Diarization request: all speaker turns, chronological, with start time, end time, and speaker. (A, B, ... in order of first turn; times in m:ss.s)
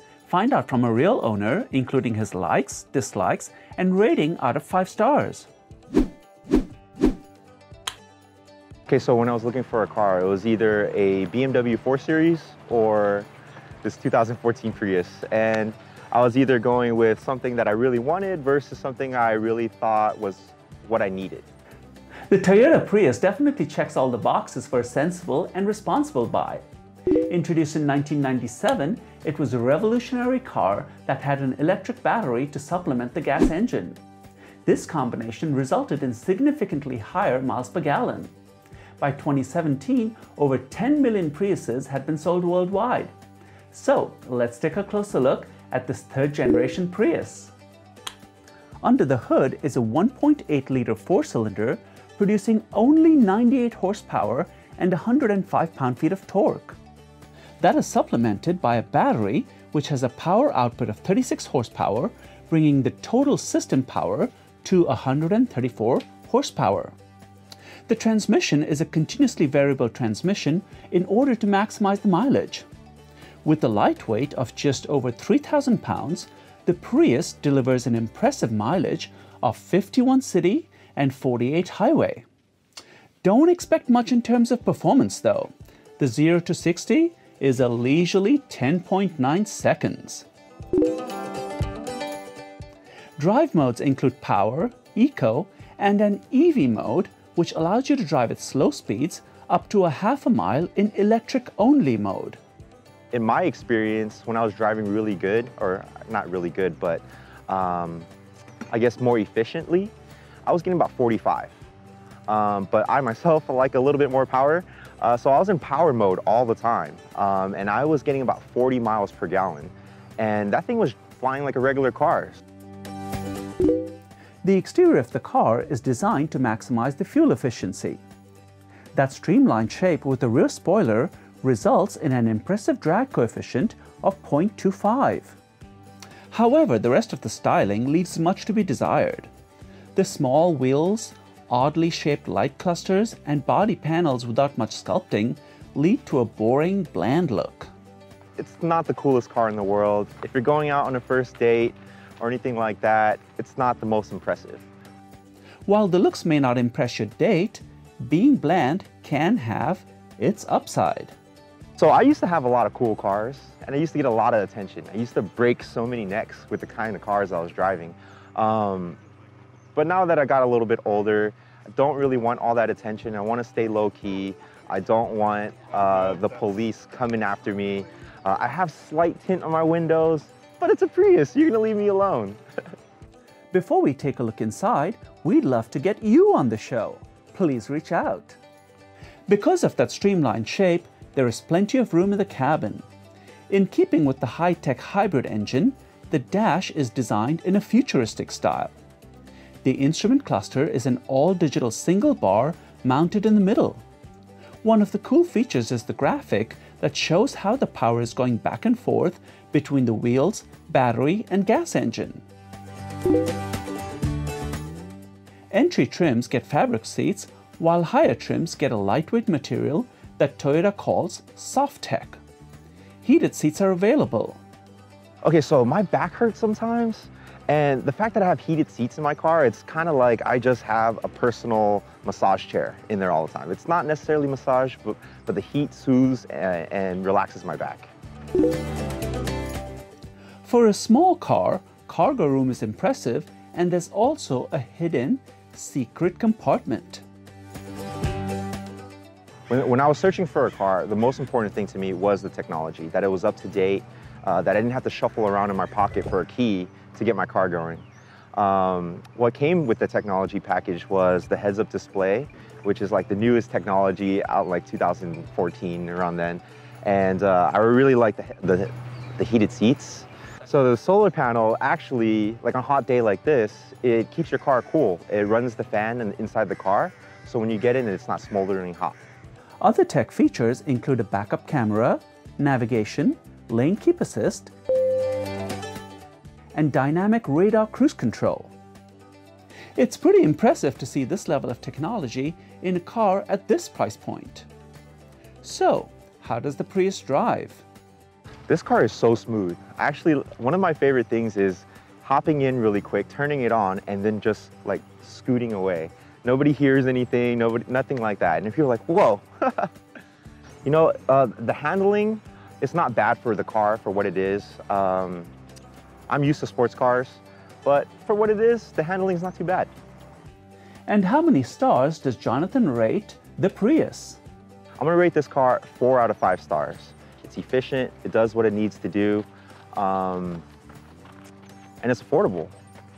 0:00.3-0:05.5 A
0:08.9-0:13.3 B
0:13.8-0:21.5 B
0:22.3-0:26.6 A
0:27.3-0:34.0 A
0:34.6-0:38.3 A
0:39.0-0:43.1 A
0:43.7-0:47.5 A
0:48.8-0:56.8 A
0:57.6-1:06.9 A
1:07.9-1:12.6 A
1:13.4-1:22.2 A
1:23.2-1:30.2 A
1:33.2-1:42.4 A
1:43.1-1:48.1 B
1:48.7-1:49.9 B
1:50.4-1:51.5 B
1:52.3-2:02.4 B
2:04.4-2:08.0 A
2:08.9-2:15.4 A
2:16.3-2:19.3 A
2:19.9-2:27.7 A
2:28.4-2:34.6 B
2:35.6-2:41.2 A
2:41.8-2:49.0 B
2:49.7-3:02.4 B
3:03.5-3:08.4 A
3:09.3-3:12.8 A
3:13.5-3:18.7 A
3:19.6-3:23.8 A
3:24.6-3:32.2 A
3:35.5-3:42.2 A
3:43.0-3:44.4 A
3:45.2-3:57.9 B
4:00.4-4:07.0 A
4:09.5-4:17.8 B
4:18.3-4:39.0 B
4:39.6-4:44.5 A
4:46.5-4:48.5 A
4:49.8-4:54.5 A
4:55.4-4:57.6 A
4:58.5-5:09.7 B
5:10.6-5:15.3 B
5:16.1-5:19.7 B
5:20.9-5:24.2 A
5:24.8-5:30.4 B
5:31.8-5:32.5 B